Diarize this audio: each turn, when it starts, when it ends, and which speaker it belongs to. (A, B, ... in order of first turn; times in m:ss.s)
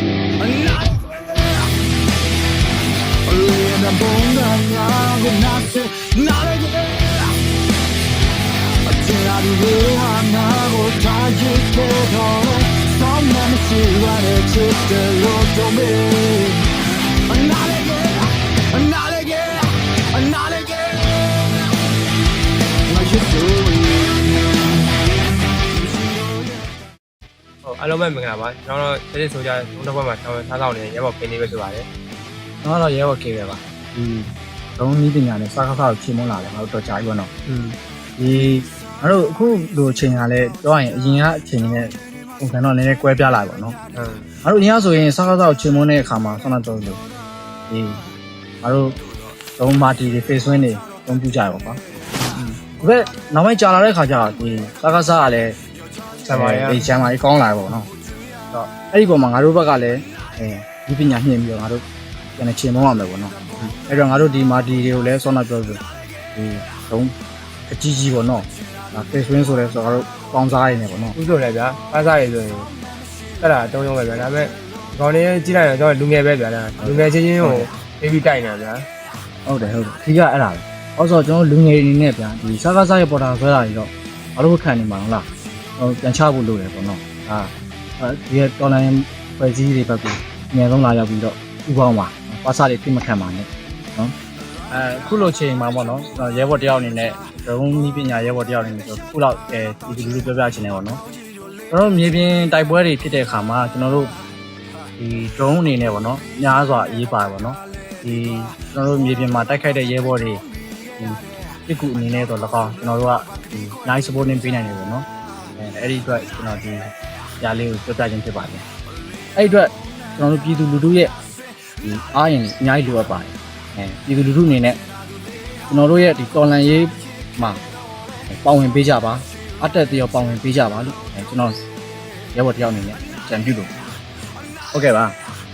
0:00.4-0:01.7 A
0:03.2-0:07.3 A
0:08.8-0:16.7 A
0:17.3-0:21.3 A
0:22.9-0:24.2 A
0:25.8-0:26.6 A
0:27.6-0:31.8 B
0:32.6-0:37.3 C
0:37.5-0:37.8 B
0:38.2-0:43.8 C
0:43.9-0:44.3 B
0:44.4-0:47.0 C
0:47.7-0:48.0 C
0:48.6-0:48.9 C
0:49.6-0:51.8 C
0:52.8-0:55.6 C
0:56.2-0:56.9 B
0:56.3-0:57.9 C
0:58.5-1:01.8 C
1:02.4-1:03.3 C
1:03.8-1:05.8 C
1:06.3-1:07.1 C
1:07.7-1:11.2 C
1:11.2-1:12.7 B
1:13.4-1:18.8 B
1:16.8-1:17.7 C
1:19.4-1:25.2 C
1:25.8-1:34.1 C
1:34.7-1:41.0 C
1:41.7-1:44.1 C
1:45.0-1:50.4 C
1:51.0-1:55.0 C
1:55.6-1:56.9 C
1:57.4-1:58.6 C
1:59.4-2:01.1 C
2:01.8-2:04.8 C
2:05.7-2:07.6 C
2:08.3-2:11.5 C
2:12.3-2:13.7 C
2:14.7-2:15.1 C